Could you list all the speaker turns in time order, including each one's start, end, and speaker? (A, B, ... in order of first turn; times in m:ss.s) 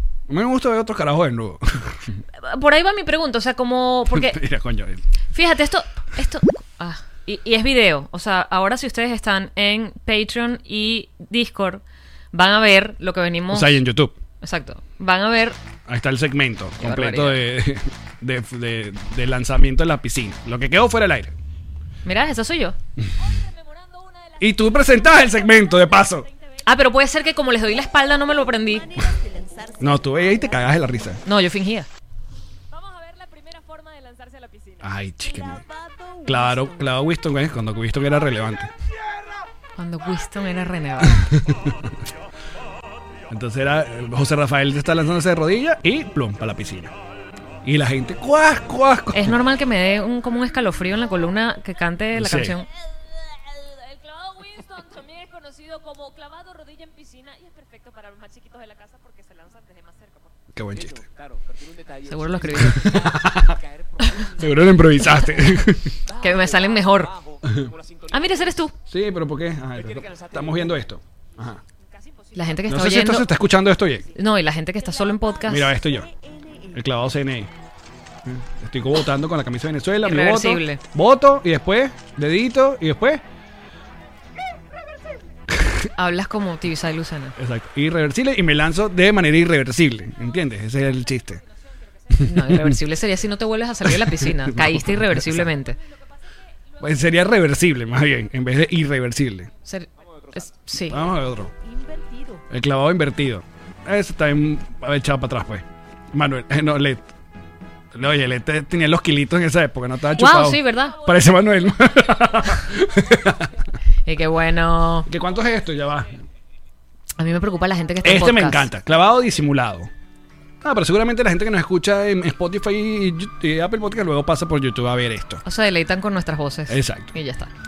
0:00.3-0:02.2 A
0:02.4-0:04.4 B
0:04.1-0:05.0 A
0:05.3-0:11.8 B
0:12.3-0:13.8 B
0:13.5-0:14.2 A
0:14.4-0:15.6 B
0:15.9-0:21.3 A
0:16.8-0:17.4 B
0:22.0-0:22.8 B
0:24.4-0:26.3 A
0:26.6-0:29.0 B
0:29.8-0:31.2 A
0:31.2-0:31.9 B
0:33.0-0:34.7 C
0:34.8-0:35.6 A
0:36.2-0:38.7 A
0:39.8-0:41.3 B
0:41.1-0:41.9 A
0:43.3-0:46.9 A
0:47.6-0:49.4 A
0:49.1-0:52.7 B
0:52.1-0:52.6 A
0:54.1-0:59.4 B
0:57.4-1:00.0 C
1:00.5-1:01.1 A
1:02.0-1:03.2 B
1:02.6-1:03.6 A
1:04.0-1:04.3 B
1:04.3-1:05.9 A
1:05.1-1:05.4 B
1:06.2-1:07.1 B
1:07.4-1:07.7 A
1:08.1-1:08.7 B
1:08.8-1:11.6 A
1:12.3-1:13.3 B
1:12.7-1:14.1 A
1:14.1-1:15.8 B
1:15.5-1:16.1 A
1:16.7-1:17.5 A
1:18.2-1:23.2 A
1:20.0-1:20.8 B
1:26.0-1:27.3 B
1:27.4-1:31.4 A
1:32.2-1:32.8 A
1:32.2-1:35.8 B
1:33.8-1:35.5 A
1:36.8-1:39.5 A
1:39.6-1:41.0 B
1:40.9-1:41.5 A
1:42.5-1:47.1 A
1:47.9-1:53.5 A
1:50.2-1:51.0 B
1:54.0-1:55.1 B
1:55.1-1:56.2 A
1:57.2-1:58.7 B
1:58.0-1:59.9 A
2:00.6-2:05.4 A
2:05.4-2:07.5 B
2:06.7-2:07.1 A